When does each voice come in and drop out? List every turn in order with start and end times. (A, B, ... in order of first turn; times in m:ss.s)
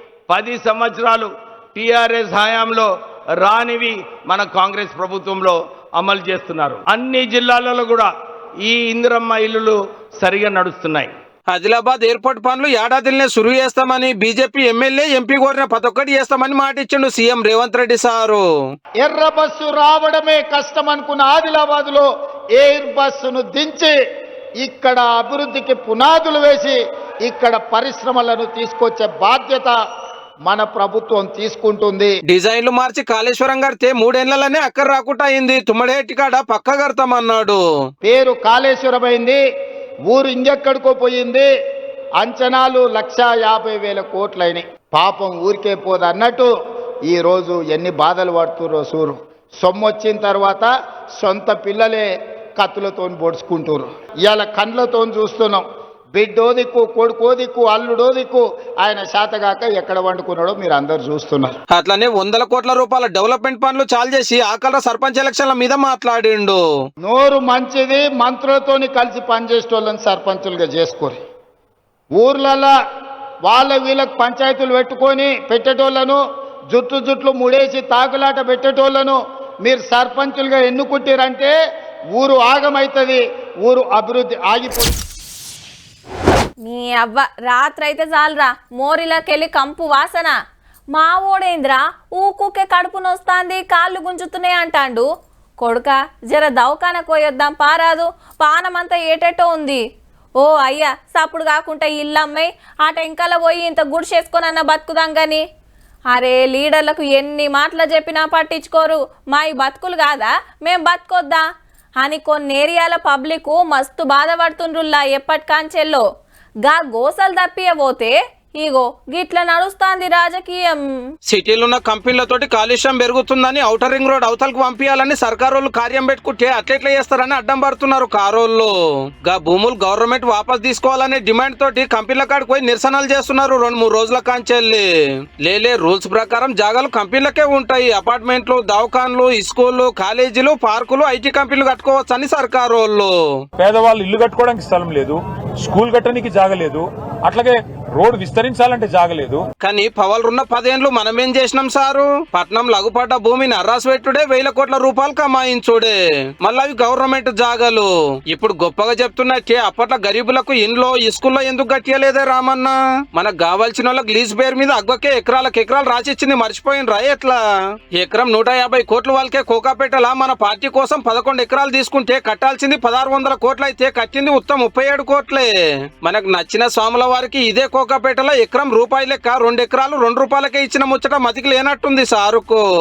0:00.3-0:02.9 A
0:03.4-0:08.1 A
0:08.6-0:11.1 A
0:11.5-0:18.4 B
0:19.0-0:23.9 C
0:24.6-0:29.7 C
0:30.5-0:32.2 C
0:32.3-0:37.6 B
0:38.0-0:39.4 C
0:40.1-0:41.5 C
0:42.2-0:46.5 C
0:47.1-0:52.1 C
0:52.6-0:55.6 C
0:56.1-1:01.5 C
1:01.7-1:06.6 B
1:07.0-1:11.2 C
1:12.1-1:12.7 C
1:13.4-1:21.5 C
1:22.2-1:24.9 C
1:26.6-1:30.3 D
1:31.0-1:35.1 D
1:35.6-1:39.8 D
1:40.4-1:45.4 D
1:46.1-1:51.4 D
1:52.0-1:56.0 D
1:56.6-2:01.1 D
2:01.3-2:08.7 B
2:09.2-2:14.8 B
2:15.4-2:23.1 B
2:23.6-2:29.4 E
2:29.6-2:47.4 B
2:47.9-2:55.5 B
2:56.0-3:02.6 B